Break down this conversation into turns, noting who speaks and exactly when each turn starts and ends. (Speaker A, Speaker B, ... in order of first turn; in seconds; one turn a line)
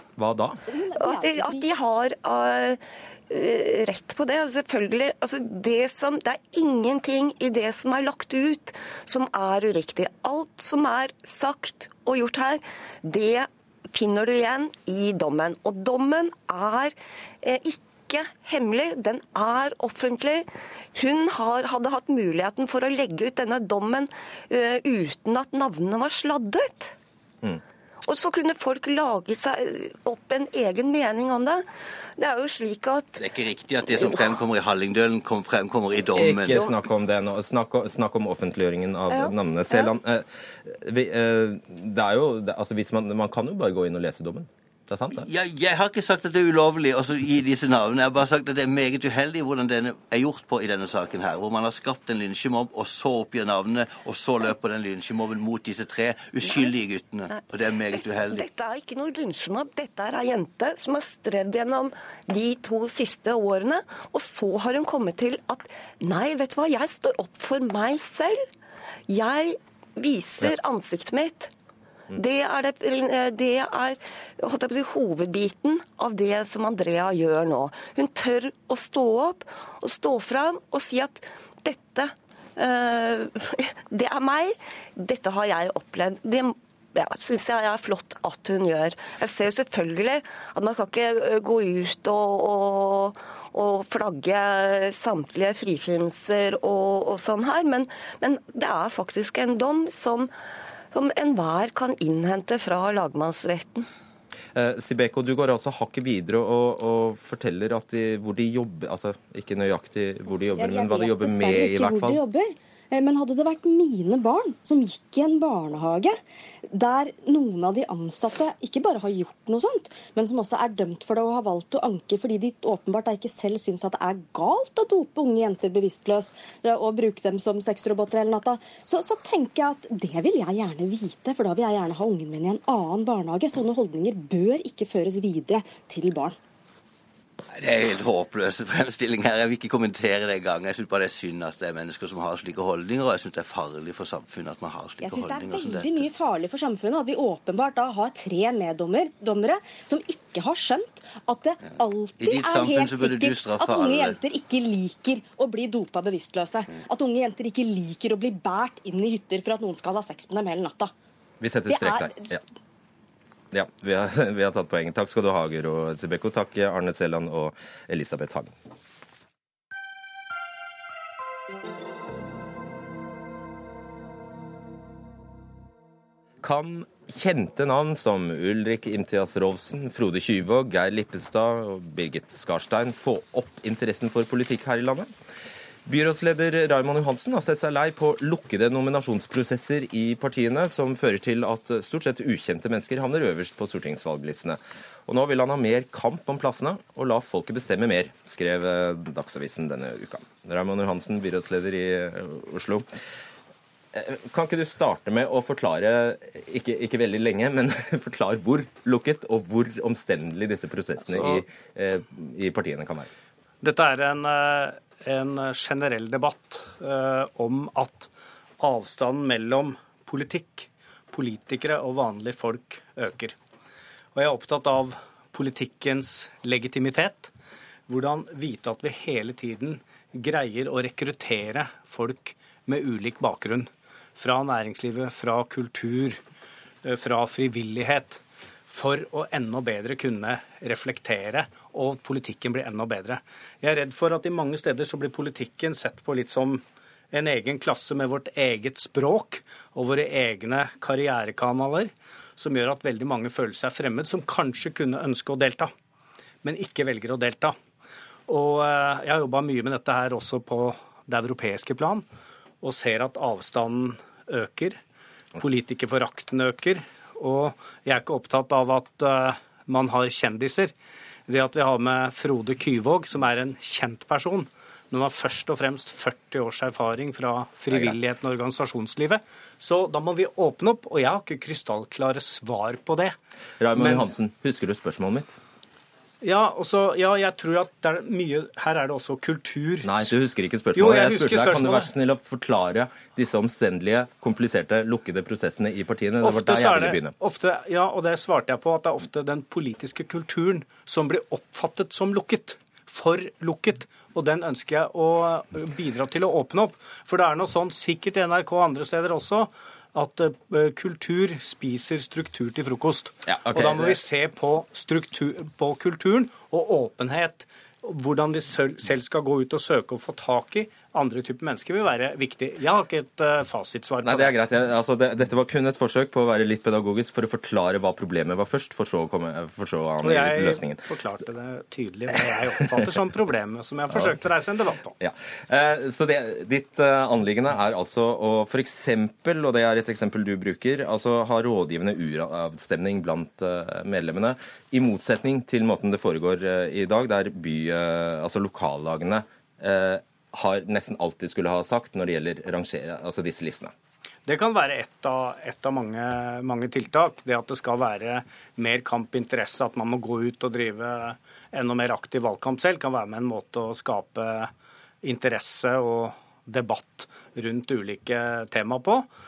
Speaker A: 0.2-0.6
Speaker B: 0.7-1.8
Speaker C: 0.9-26.9
Speaker C: 28.1-31.6
Speaker C: 32.2-33.2
Speaker D: 33.2-36.7
Speaker A: 36.1-45.2
Speaker C: 39.1-39.9
Speaker D: 45.1-58.5
Speaker C: 56.5-56.7
Speaker C: 57.3-68.4
Speaker C: 69.1-71.5
Speaker C: 72.1-100.3
Speaker C: 100.9-103.9
Speaker A: 104.5-112.2
Speaker B: 110.5-136.4
Speaker D: 137.5-146.1
Speaker B: 145.0-160.9
Speaker D: 152.2-154.2
Speaker A: 161.4-162.4
Speaker B: 161.7-162.4
Speaker A: 163.5-168.5
Speaker A: 176.4-185.1
Speaker A: 185.8-202.9
Speaker A: 203.9-213.1
Speaker E: 211.0-211.4
Speaker E: 213.6-223.3
Speaker E: 224.1-227.3
Speaker E: 227.9-236.2
Speaker E: 236.8-255.7
Speaker E: 256.4-257.6
Speaker E: 258.3-262.1
Speaker E: 262.6-264.8
Speaker E: 265.4-270.7
Speaker E: 271.3-283.1
Speaker A: 277.7-277.9
Speaker A: 283.6-285.4
Speaker E: 283.8-284.1
Speaker E: 286.2-290.1
Speaker A: 289.8-297.1
Speaker E: 290.7-291.9
Speaker E: 296.2-324.3
Speaker A: 313.2-314.0
Speaker A: 324.0-330.9
Speaker E: 330.0-334.9
Speaker A: 335.0-353.7
Speaker E: 354.2-364.5
Speaker E: 365.0-369.1